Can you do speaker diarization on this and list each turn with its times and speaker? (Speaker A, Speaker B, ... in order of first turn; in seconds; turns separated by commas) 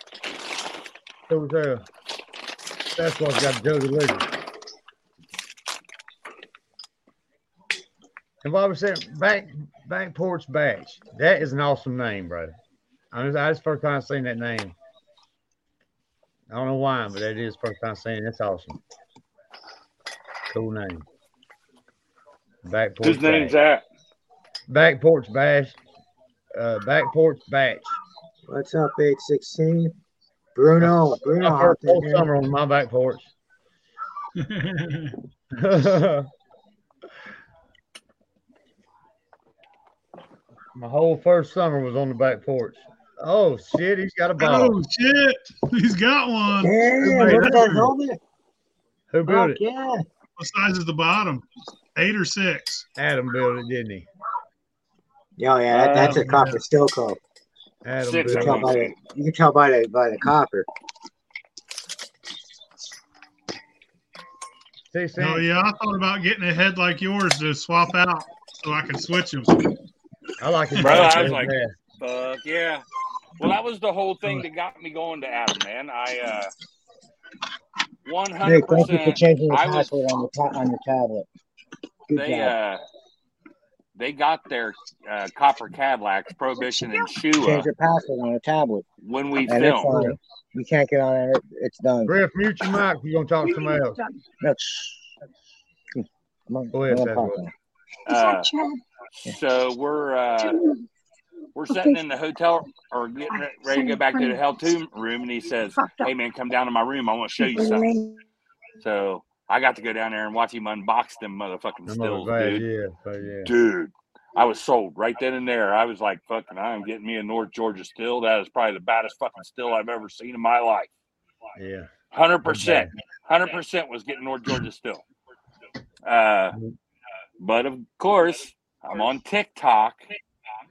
Speaker A: 1.3-1.8, Speaker A: 2.9-4.3, Speaker A: 8.4-12.5, Speaker A: 13.1-14.7, Speaker A: 16.5-18.8, Speaker A: 20.5-21.0, Speaker A: 22.6-23.5, Speaker B: 23.0-23.8, Speaker A: 24.7-25.7, Speaker A: 26.5-27.9, Speaker C: 28.5-29.9, Speaker C: 30.6-32.3, Speaker A: 30.8-33.3, Speaker D: 34.4-35.2, Speaker A: 35.5-36.3, Speaker A: 40.7-44.8, Speaker D: 44.4-47.9, Speaker C: 46.6-48.2, Speaker A: 47.0-47.7, Speaker A: 49.1-49.6, Speaker C: 49.3-50.0, Speaker D: 50.4-51.4, Speaker D: 51.9-52.8, Speaker A: 53.0-54.0, Speaker C: 55.4-57.2, Speaker D: 55.7-56.6, Speaker A: 57.8-58.8, Speaker B: 58.0-58.9, Speaker C: 58.3-60.7, Speaker A: 64.9-65.5, Speaker D: 65.2-69.6, Speaker A: 70.4-71.7, Speaker D: 70.8-71.2, Speaker B: 70.8-72.8, Speaker B: 73.4-76.5, Speaker B: 78.0-79.9, Speaker C: 78.4-81.3, Speaker C: 82.1-82.5, Speaker B: 82.1-82.8, Speaker B: 83.9-87.7, Speaker C: 87.4-88.8, Speaker B: 89.0-90.0, Speaker C: 89.5-92.1, Speaker A: 89.9-90.2, Speaker A: 92.0-94.0, Speaker C: 94.4-95.1, Speaker C: 96.0-97.5, Speaker A: 96.7-97.5, Speaker B: 98.0-98.6, Speaker B: 99.1-100.6, Speaker B: 101.5-108.0, Speaker B: 108.8-112.6, Speaker A: 111.8-113.5, Speaker B: 113.4-120.9, Speaker A: 121.5-121.9, Speaker B: 122.1-125.0, Speaker A: 122.4-122.9, Speaker B: 126.0-126.6, Speaker B: 127.4-130.0